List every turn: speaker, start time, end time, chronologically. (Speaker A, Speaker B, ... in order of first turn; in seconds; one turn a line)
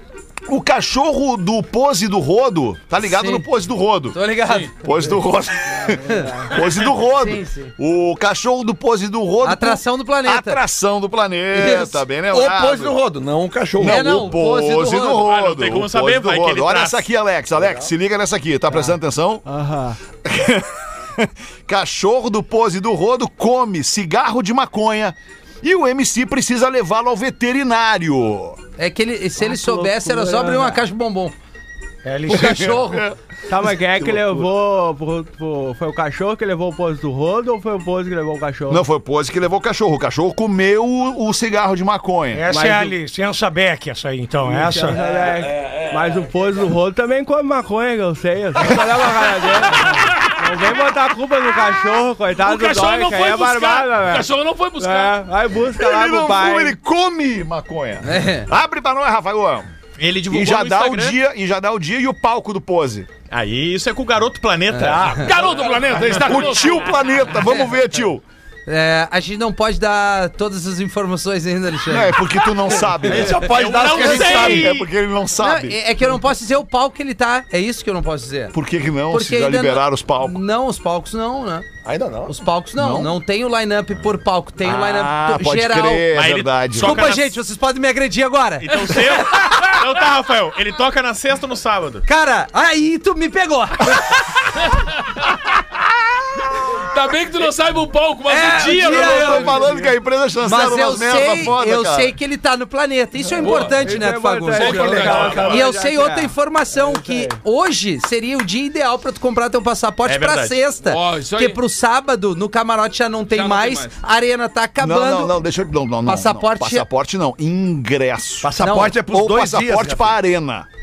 Speaker A: 0.5-4.2
Speaker B: 3.0-3.5
Speaker B: 4.1-4.7
Speaker C: 4.4-4.7
Speaker A: 4.8-13.0
Speaker B: 6.0-7.7
Speaker D: 6.1-6.4
Speaker B: 9.4-10.6
Speaker B: 11.5-12.0
Speaker E: 12.3-14.2
Speaker A: 13.8-19.4
Speaker B: 13.8-15.3
Speaker F: 15.2-17.1
Speaker E: 17.6-17.9
Speaker D: 19.5-20.0
Speaker A: 20.2-28.6
Speaker B: 28.8-31.4
Speaker D: 29.4-30.8
Speaker G: 32.0-32.7
Speaker B: 32.3-33.1
Speaker A: 32.3-34.5
Speaker D: 33.5-38.8
Speaker A: 38.7-42.5
Speaker G: 42.3-45.0
Speaker D: 42.5-43.0
Speaker D: 44.5-56.8
Speaker E: 45.0-46.6
Speaker C: 49.8-50.4
Speaker C: 52.4-55.2
Speaker A: 55.7-59.7
Speaker B: 58.0-58.5
Speaker F: 60.0-61.2
Speaker A: 60.3-63.1
Speaker F: 63.3-66.2
Speaker B: 64.7-65.1
Speaker E: 64.8-65.8
Speaker C: 65.2-66.9
Speaker A: 66.0-68.2
Speaker B: 68.7-72.2
Speaker A: 71.9-75.8
Speaker E: 73.0-74.7
Speaker F: 73.5-74.9
Speaker B: 74.0-74.7
Speaker B: 75.4-78.6
Speaker A: 78.5-80.4
Speaker B: 79.1-81.7
Speaker E: 81.8-82.3
Speaker B: 82.3-86.1
Speaker A: 82.8-83.1
Speaker A: 84.6-87.1
Speaker F: 86.1-87.4
Speaker B: 86.8-89.2
Speaker F: 88.6-92.1
Speaker B: 92.1-94.4
Speaker C: 96.9-99.7
Speaker B: 98.3-99.6
Speaker A: 98.6-102.2
Speaker D: 99.1-99.9
Speaker B: 100.4-115.4
Speaker C: 103.4-103.8
Speaker D: 103.4-107.4
Speaker C: 104.5-105.6
Speaker F: 104.9-105.5
Speaker F: 110.1-110.6
Speaker C: 110.8-111.6
Speaker C: 113.3-114.0
Speaker A: 114.8-118.6
Speaker B: 116.1-116.9
Speaker E: 118.4-120.2
Speaker B: 118.6-118.9
Speaker A: 119.1-120.7